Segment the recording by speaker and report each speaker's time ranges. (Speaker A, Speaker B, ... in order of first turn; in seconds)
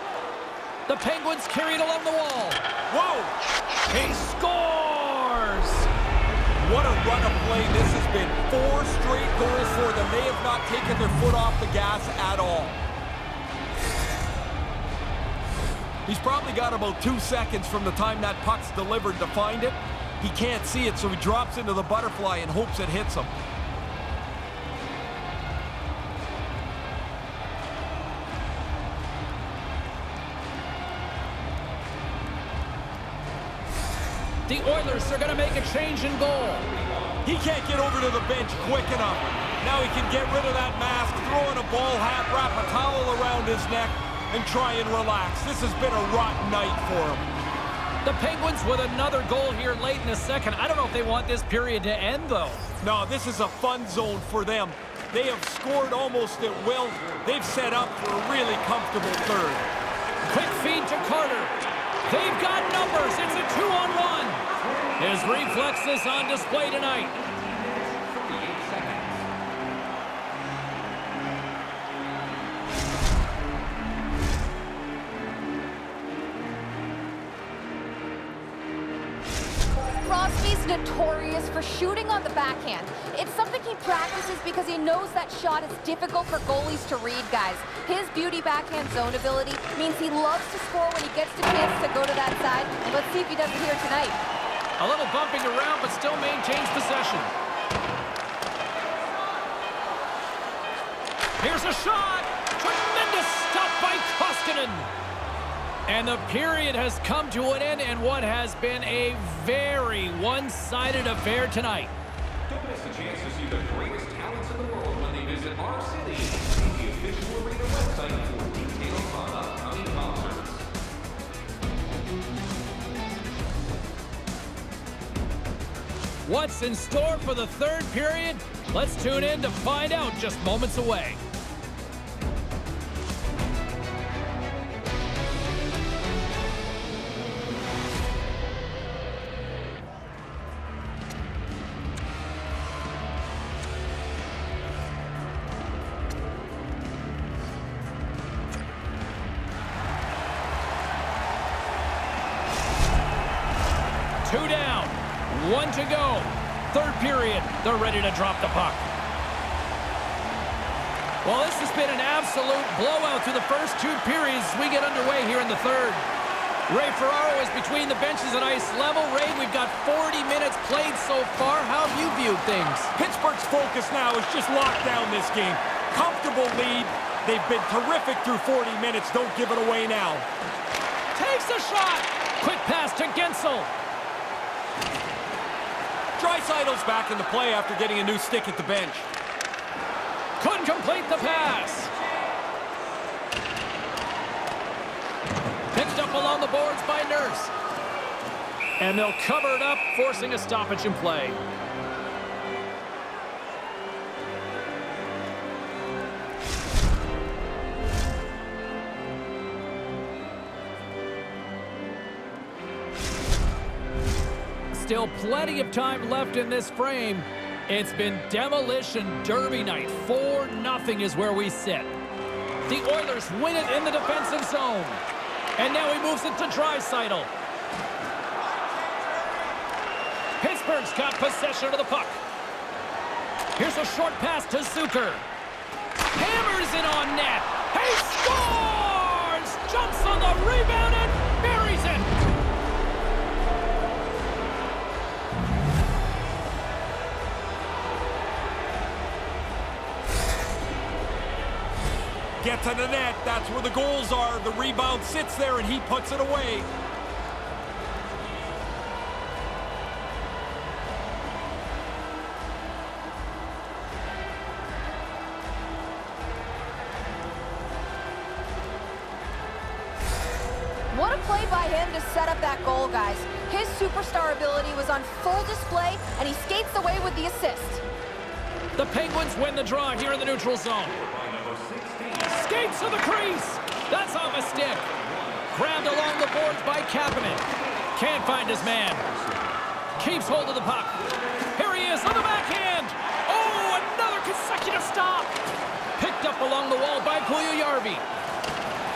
Speaker A: 0.9-2.6, 3.9-5.9, 34.5-36.7, 48.0-52.6, 60.3-64.4, 65.0-67.1, 94.8-97.3, 101.4-104.9, 105.9-111.9, 126.2-131.2, 154.2-158.9, 161.2-166.0, 166.7-172.9, 181.1-183.7, 190.4-191.9, 195.7-197.5, 198.8-201.4, 214.7-221.9, 222.7-225.0, 225.6-227.3, 230.4-232.2, 233.6-235.2, 236.1-242.1, 278.8-281.0, 282.3-284.9, 285.5-289.0, 290.0-291.0, 291.5-295.3, 296.0-298.1
Speaker B: 2.9-3.3, 6.6-12.8, 16.1-23.3, 37.2-47.2, 52.8-59.7, 172.9-180.3, 186.2-189.1, 252.4-256.7
Speaker C: 67.2-69.2, 112.5-120.6, 280.8-282.4, 284.9-285.4
Speaker D: 80.0-94.2, 270.9-277.8